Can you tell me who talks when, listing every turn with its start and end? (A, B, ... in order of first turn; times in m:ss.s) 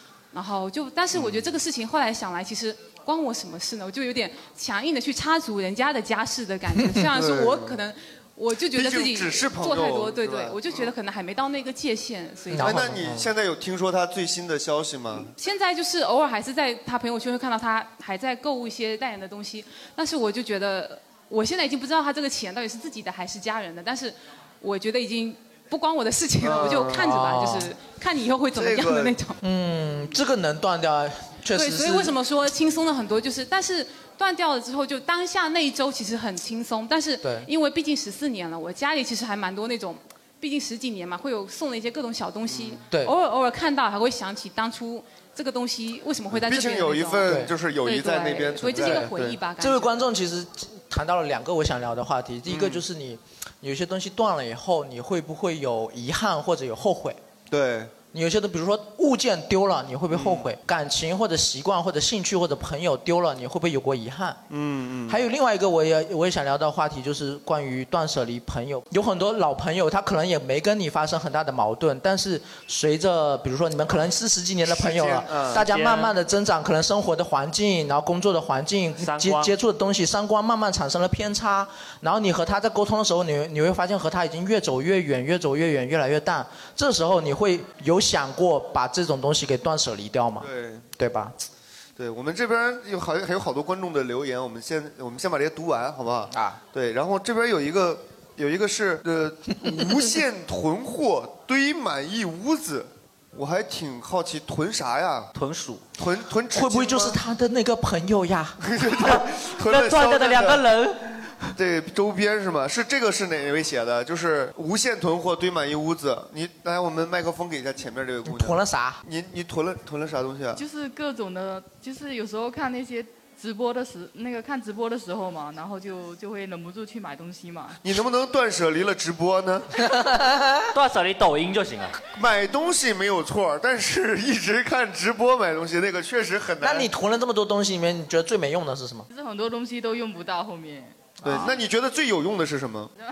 0:00.3-0:12.9 A
0:01.1-0:01.5 B
0:07.1-0:07.8 B
0:08.7-0:10.9 B
0:12.5-0:13.3 C
0:12.6-0:15.3 B
0:15.4-0:29.4 A
0:26.4-0:27.1 B
0:26.9-0:27.7 C
0:28.5-0:29.2 B
0:29.4-0:32.2 C
0:31.5-0:50.0 A
0:37.2-0:37.5 C
0:42.5-0:42.8 B
0:46.3-0:49.4 B
0:47.3-0:47.5 C
0:48.8-0:49.1 C
0:49.6-0:57.2 C
0:52.5-0:52.8 B
0:57.5-0:57.9 B
0:58.1-1:04.4 C
1:00.1-1:00.4 B
1:04.5-1:05.2 B
1:05.1-1:31.4 C
1:14.7-1:15.6 B
1:15.6-1:16.1 D
1:19.0-1:19.5 D
1:30.4-1:30.8 B
1:32.0-1:45.3 B
1:36.3-1:36.6 C
1:45.4-1:45.8 D
1:46.0-1:47.2 B
1:46.5-1:48.6 C
1:48.6-1:50.6 B
1:49.3-1:51.5 D
1:51.6-2:00.6 B
1:58.2-1:59.0 C
2:00.6-2:07.8 E
2:07.8-2:09.7 B
2:09.8-2:10.7 C
2:10.7-2:12.0 D
2:12.1-2:16.9 B
2:16.6-2:19.1 C
2:19.1-2:20.9 E
2:21.2-2:21.6 C
2:21.2-2:22.9 B